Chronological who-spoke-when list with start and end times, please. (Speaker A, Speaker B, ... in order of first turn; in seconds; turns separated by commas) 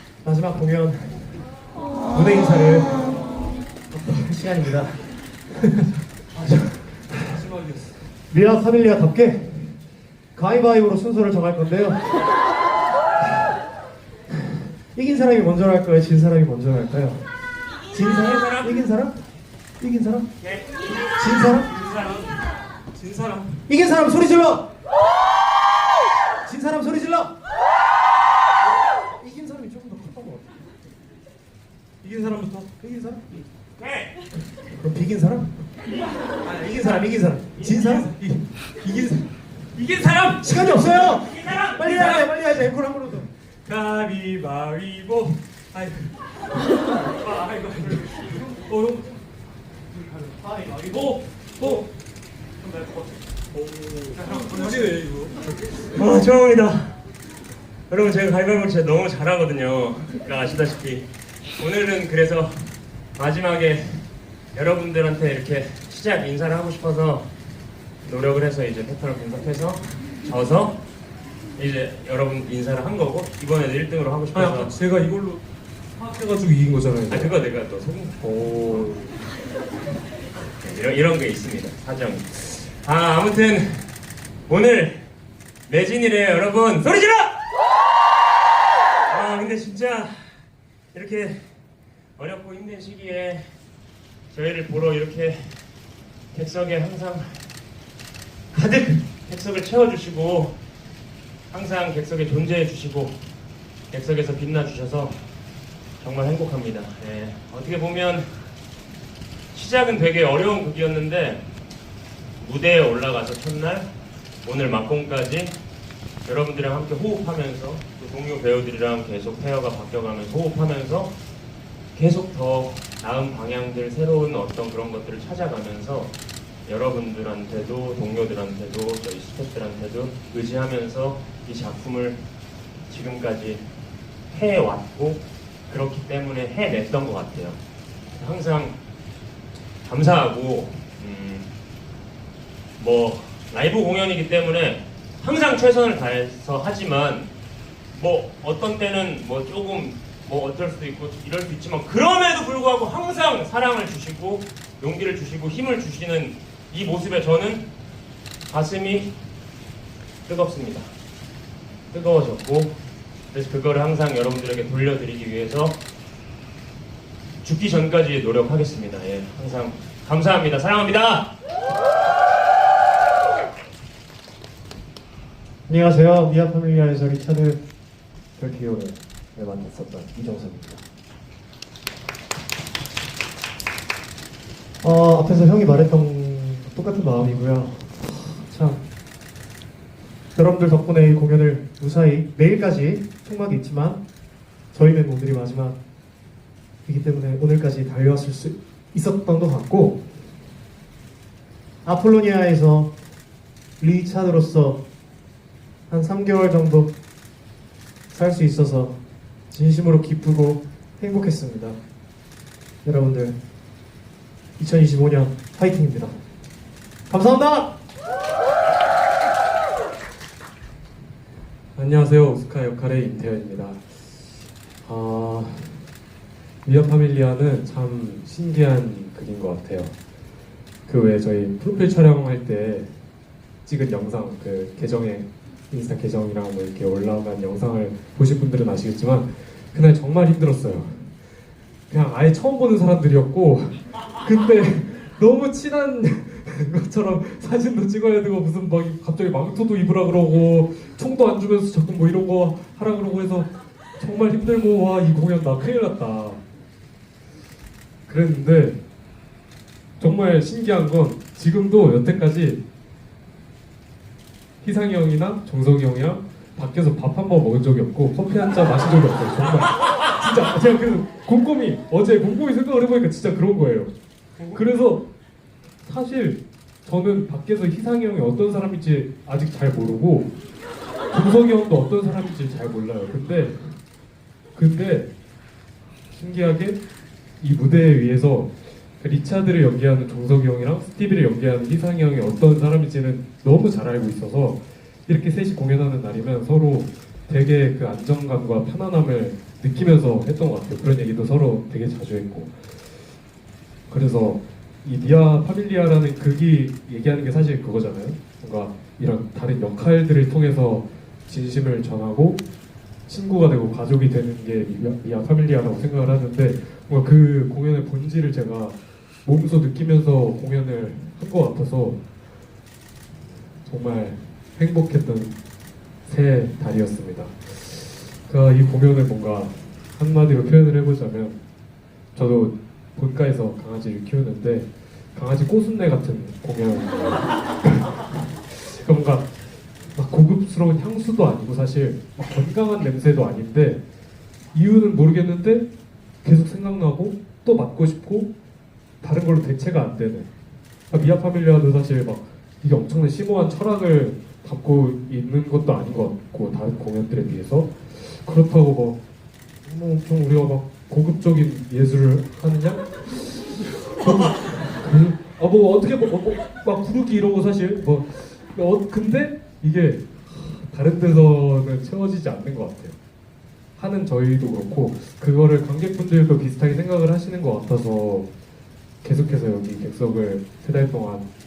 Speaker A: 0.2-1.5, Speaker A: 2.1-3.1, Speaker A: 3.9-7.5, Speaker B: 7.4-7.8, Speaker A: 8.3-9.8, Speaker A: 10.3-12.4, Speaker A: 13.2-13.6, Speaker A: 14.9-17.3, Speaker A: 17.9-19.2, Speaker C: 18.0-18.8, Speaker A: 19.8-20.3, Speaker A: 21.0-21.8, Speaker C: 21.7-22.3, Speaker B: 22.9-23.5, Speaker A: 23.6-24.6, Speaker A: 26.4-27.3, Speaker A: 29.0-30.6, Speaker B: 32.0-32.5, Speaker A: 32.1-33.4, Speaker C: 33.8-34.1, Speaker A: 34.7-35.5, Speaker A: 36.5-38.1, Speaker B: 37.9-39.3, Speaker C: 39.8-40.2, Speaker A: 40.3-43.3, Speaker C: 40.9-41.9, Speaker B: 41.9-42.3, Speaker B: 43.7-46.1, Speaker C: 44.4-45.0, Speaker C: 47.0-48.1, Speaker B: 48.4-49.2, Speaker A: 50.2-51.7, Speaker B: 53.5-55.5, Speaker A: 54.2-55.0, Speaker C: 55.6-57.0, Speaker C: 57.9-61.1, Speaker C: 61.6-67.3, Speaker C: 68.0-70.8, Speaker C: 71.6-74.8, Speaker B: 74.3-75.4, Speaker B: 76.0-77.4, Speaker C: 77.1-78.2, Speaker B: 78.2-79.1, Speaker C: 80.6-83.9, Speaker C: 84.5-85.1, Speaker C: 85.7-87.4, Speaker C: 89.1-90.3, Speaker C: 90.9-91.4, Speaker C: 92.2-93.5, Speaker C: 94.3-95.6, Speaker C: 96.3-97.5, Speaker C: 98.5-100.6, Speaker C: 101.5-103.2, Speaker C: 103.9-105.2, Speaker C: 106.0-108.3, Speaker C: 109.5-111.5, Speaker C: 112.4-113.9, Speaker C: 114.4-115.6, Speaker C: 116.2-121.1, Speaker C: 122.0-126.1, Speaker C: 126.7-132.2, Speaker C: 132.9-133.7, Speaker C: 134.3-137.6, Speaker C: 138.2-138.8, Speaker C: 139.8-141.5, Speaker C: 142.8-147.3, Speaker C: 147.9-157.7, Speaker C: 158.5-159.1, Speaker C: 160.3-160.9, Speaker C: 161.9-162.8, Speaker C: 163.3-165.8, Speaker C: 167.4-171.3, Speaker A: 175.7-177.6, Speaker A: 178.4-180.8, Speaker A: 184.8-188.8, Speaker A: 190.3-194.0, Speaker A: 194.7-195.8, Speaker A: 196.8-200.0, Speaker A: 201.8-202.9, Speaker A: 203.8-204.8, Speaker A: 205.9-206.9, Speaker A: 208.1-209.0, Speaker A: 209.5-211.8, Speaker A: 212.8-213.4, Speaker A: 214.6-216.2, Speaker A: 217.1-217.7, Speaker B: 221.8-223.9, Speaker B: 224.8-225.9, Speaker B: 226.7-229.9, Speaker B: 230.9-232.9, Speaker B: 233.7-241.2, Speaker B: 241.9-256.4, Speaker B: 258.1-258.8, Speaker B: 260.0-262.6, Speaker B: 264.6-273.9, Speaker B: 274.5-275.1, Speaker B: 275.8-280.3, Speaker B: 281.1-283.8, Speaker B: 284.5-285.1, Speaker B: 286.1-286.8, Speaker B: 287.4-302.6, Speaker B: 303.9-312.4, Speaker B: 313.1-322.0, Speaker B: 323.6-325.4, Speaker B: 326.0-331.4, Speaker B: 332.1-339.4, Speaker B: 339.9-343.8, Speaker B: 344.5-345.7, Speaker B: 346.2-348.3, Speaker B: 349.0-350.3, Speaker B: 350.9-359.0, Speaker B: 359.6-373.0, Speaker B: 373.8-378.3, Speaker B: 379.0-381.3